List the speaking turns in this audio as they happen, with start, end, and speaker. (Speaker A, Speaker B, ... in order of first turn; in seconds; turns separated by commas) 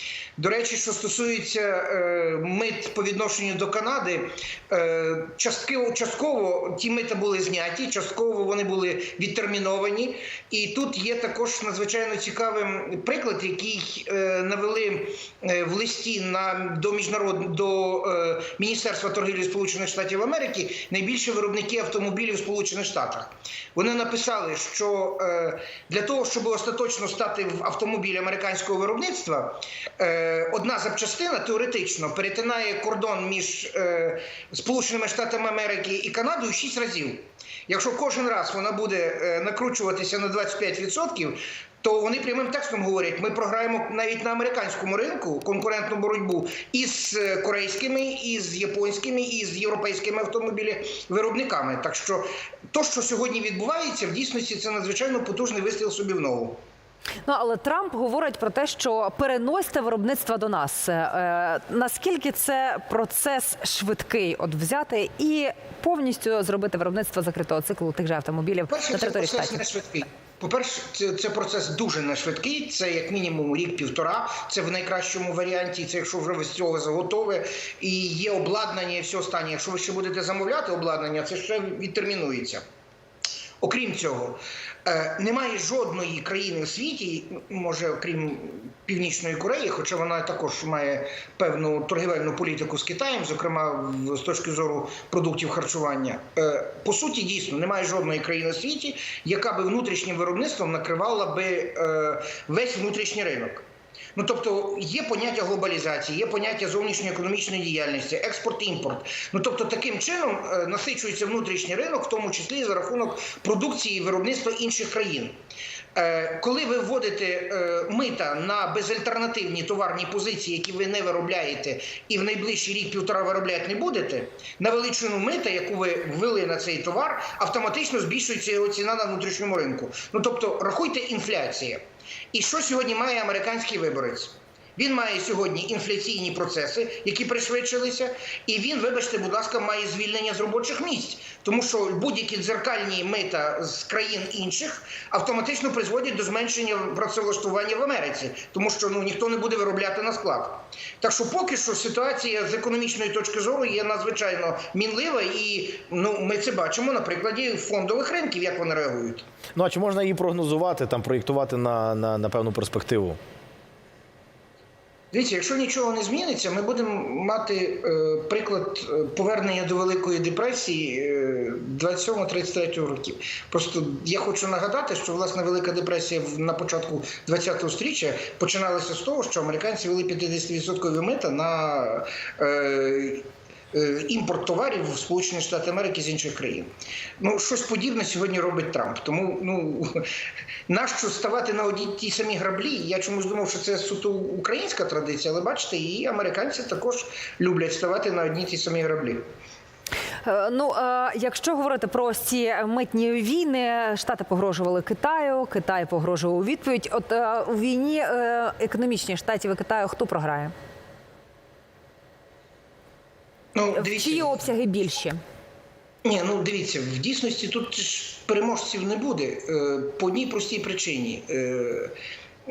Speaker A: 0.4-56.6, Speaker B: 57.3-69.6, Speaker A: 68.7-82.6, Speaker A: 83.6-115.4, Speaker A: 116.0-159.2, Speaker C: 159.6-163.2, Speaker A: 165.1-190.1, Speaker A: 190.7-199.2, Speaker B: 200.2-210.5, Speaker A: 213.6-214.4, Speaker B: 213.8-215.2, Speaker A: 216.1-221.9